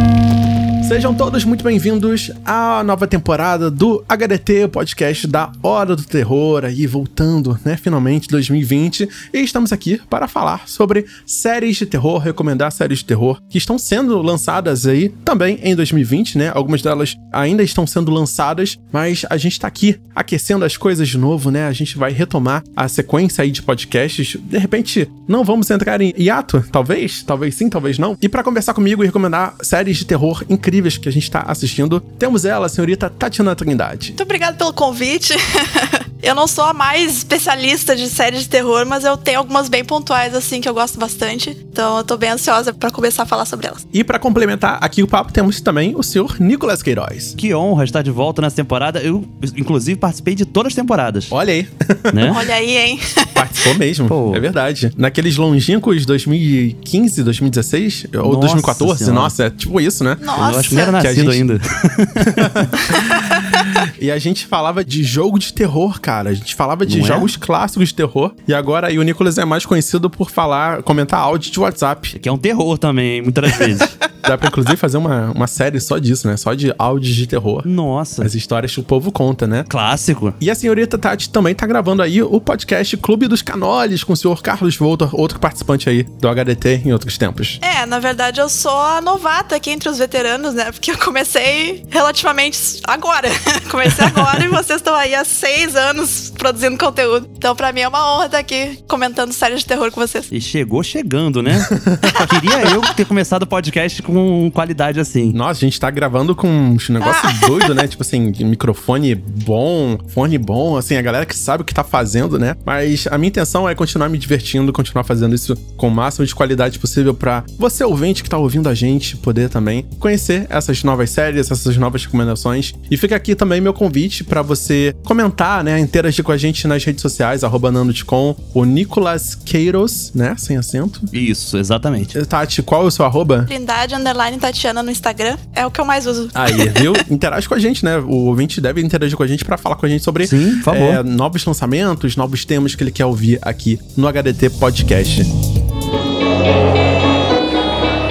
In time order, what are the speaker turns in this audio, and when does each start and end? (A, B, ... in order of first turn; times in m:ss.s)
0:00.8-0:34.2 A
0:34.2-0:43.8 B
0:43.9-0:47.4 A
0:47.4-0:51.3 C
0:51.3-0:52.5 A
0:52.1-0:52.4 C
0:52.3-0:53.5 B
0:53.3-1:01.4 A
0:54.1-0:54.4 C
0:58.2-0:59.3 C
1:00.2-1:01.0 B
1:00.4-1:02.7 C
1:02.2-1:12.1 A
1:02.8-1:03.5 B
1:06.8-1:07.3 C
1:12.1-1:13.9 C
1:13.6-1:17.7 A
1:17.6-1:18.3 C
1:18.2-1:19.7 A
1:19.7-1:20.4 C
1:20.4-1:27.6 A
1:27.6-1:40.3 B
1:40.3-1:45.4 C
1:41.6-1:42.3 A
1:42.1-1:42.9 B
1:45.3-2:11.1 A
1:47.0-1:47.8 B
2:11.1-2:12.1 C
2:12.1-2:13.5 A
2:13.5-2:17.0 B
2:16.3-2:25.3 A
2:20.2-2:21.0 C